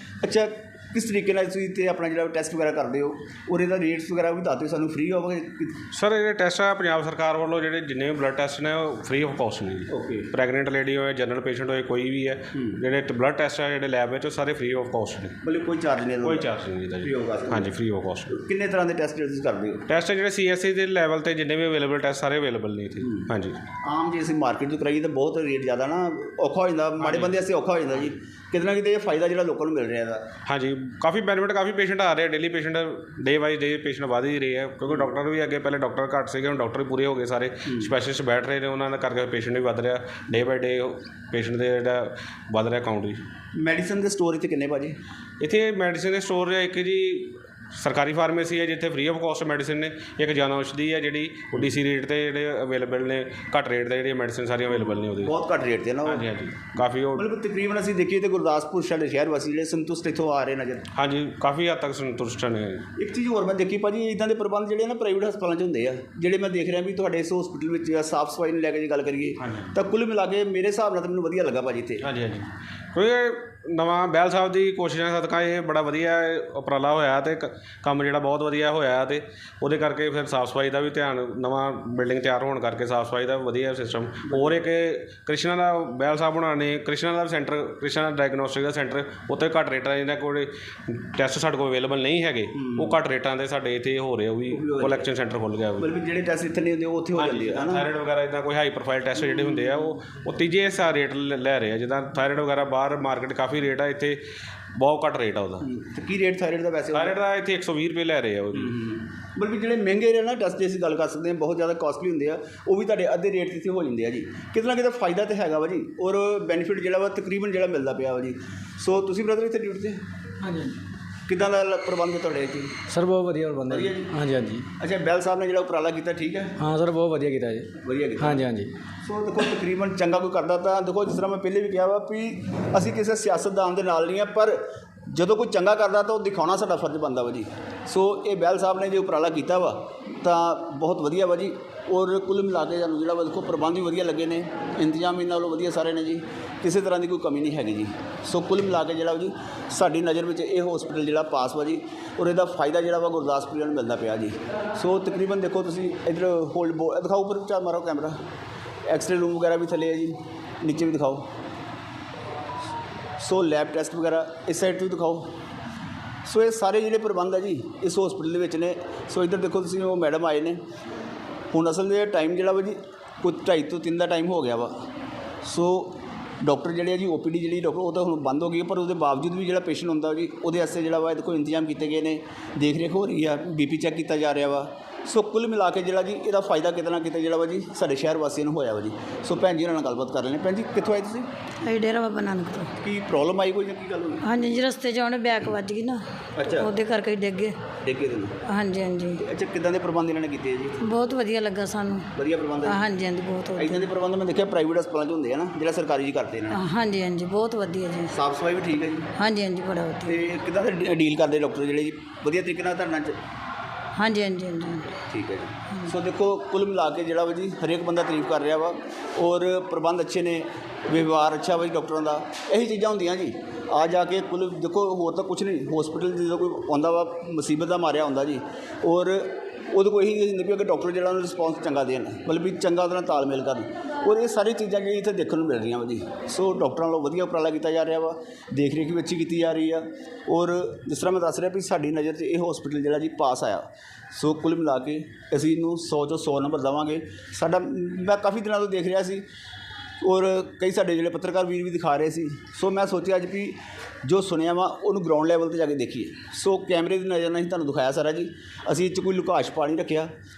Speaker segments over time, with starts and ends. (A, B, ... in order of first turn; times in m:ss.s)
0:00.2-0:05.8 A
0:05.9-0:15.4 B
0:09.9-0:10.3 A
0:12.5-0:12.8 A
0:15.4-0:16.5 A
0:16.2-0:18.3 B
0:17.0-0:17.7 A
0:18.3-0:19.8 A
0:19.9-0:23.6 B
0:23.8-0:30.3 A
0:27.0-0:27.3 B
0:30.5-0:43.2 B
0:43.6-0:45.0 A
0:45.4-0:55.3 B
0:55.2-0:56.2 A
0:56.1-0:57.2 B
0:57.1-1:00.8 A
1:01.0-1:02.8 B
1:03.0-1:12.0 A
1:09.4-1:09.7 B
1:12.0-1:35.9 B
1:32.6-1:33.0 A
1:34.5-1:35.1 A
1:35.8-1:37.8 A
1:37.2-1:44.2 B
1:44.8-1:45.6 B
1:45.6-1:47.2 A
1:46.9-1:48.7 B
1:48.6-2:00.0 A
2:00.4-2:00.7 C
2:01.3-2:02.7 A
2:02.9-2:04.6 C
2:03.7-2:04.1 A
2:04.8-2:06.5 A
2:06.6-2:08.7 C
2:07.8-2:08.5 A
2:09.0-2:38.2 A
2:38.9-2:41.3 A
2:43.2-2:45.3 A
2:46.2-2:50.6 A
2:51.5-2:54.8 A
2:55.4-3:11.3 A
3:11.6-3:12.7 D
3:12.8-3:14.2 A
3:14.2-3:17.6 D
3:16.4-3:16.7 A
3:17.8-3:18.4 A
3:18.5-3:19.2 D
3:19.2-3:20.8 A
3:20.8-3:22.1 D
3:22.1-3:22.9 A
3:22.6-3:23.9 D
3:23.5-3:26.6 A
3:26.5-3:28.1 D
3:28.1-3:29.1 A
3:29.2-3:30.2 D
3:30.0-3:33.2 A
3:34.0-3:34.9 D
3:35.1-4:09.2 A
4:10.0-4:20.1 A